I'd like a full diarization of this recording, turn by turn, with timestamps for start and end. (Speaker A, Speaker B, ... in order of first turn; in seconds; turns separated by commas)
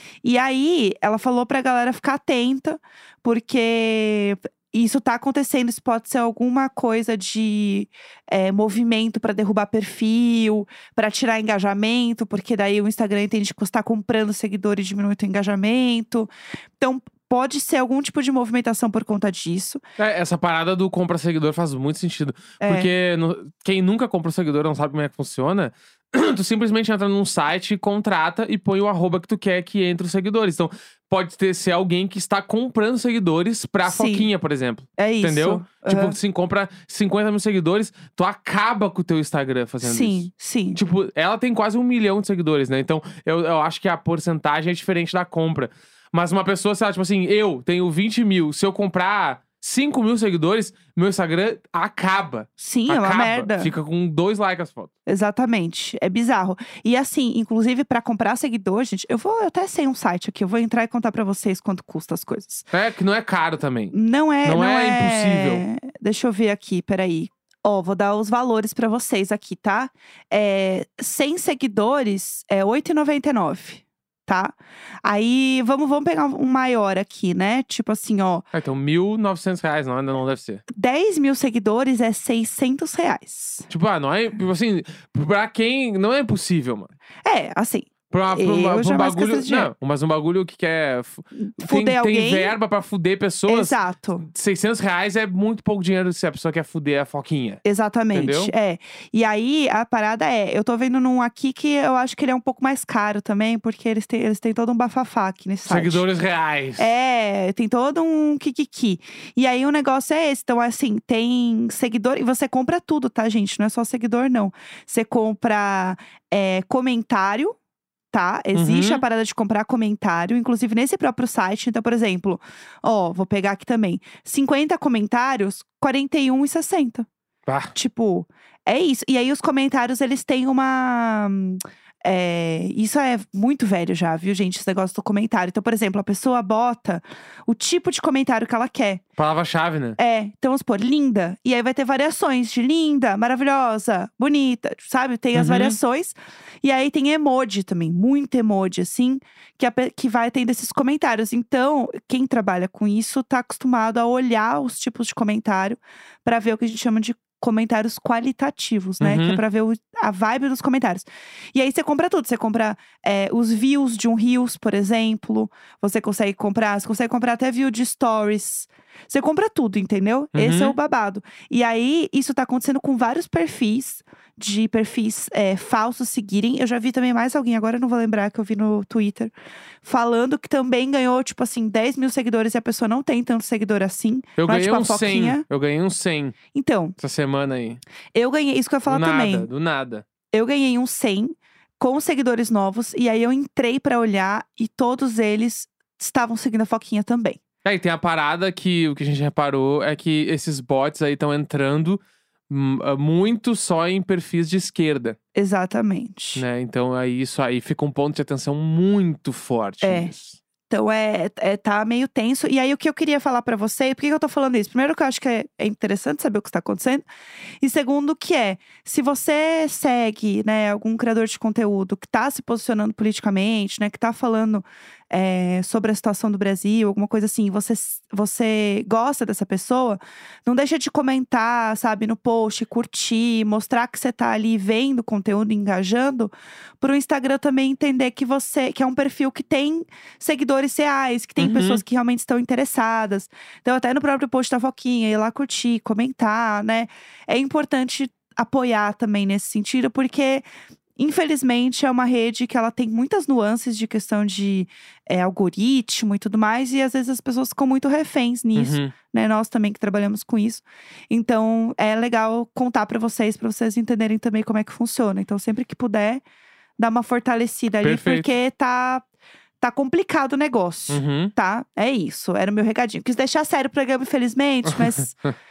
Speaker A: 0.2-19.8, Speaker B: 20.0-54.9, Speaker A: 22.6-22.9, Speaker A: 33.8-34.3, Speaker A: 35.0-36.2, Speaker A: 39.8-40.8, Speaker A: 52.6-53.7, Speaker A: 55.0-62.7, Speaker B: 62.7-65.6, Speaker A: 63.9-78.5, Speaker B: 78.5-80.6, Speaker A: 80.7-83.7, Speaker B: 83.7-86.9, Speaker A: 87.2-89.7, Speaker B: 88.1-97.6, Speaker A: 91.3-92.5, Speaker A: 93.5-94.3, Speaker A: 97.6-106.0, Speaker B: 98.1-98.5, Speaker B: 105.7-106.9, Speaker A: 106.8-117.6, Speaker A: 118.1-127.1, Speaker B: 118.5-119.0, Speaker B: 127.5-127.7, Speaker A: 127.7-139.0, Speaker B: 139.2-140.0, Speaker A: 140.0-179.3, Speaker B: 145.3-145.8, Speaker B: 159.0-159.4, Speaker B: 170.3-170.8, Speaker A: 179.8-185.4, Speaker B: 184.4-186.3, Speaker A: 186.5-187.0, Speaker B: 187.0-187.8, Speaker A: 188.1-189.5, Speaker B: 188.8-190.0, Speaker A: 190.3-197.4, Speaker B: 197.6-205.2, Speaker A: 205.3-206.4, Speaker B: 206.3-210.4, Speaker A: 209.8-210.1, Speaker A: 210.7-217.0, Speaker A: 217.6-250.4, Speaker B: 241.4-241.8, Speaker A: 251.0-266.2, Speaker B: 258.5-258.9, Speaker A: 266.8-269.0, Speaker B: 267.8-268.3, Speaker A: 269.6-275.2, Speaker B: 270.9-271.3, Speaker B: 274.7-275.3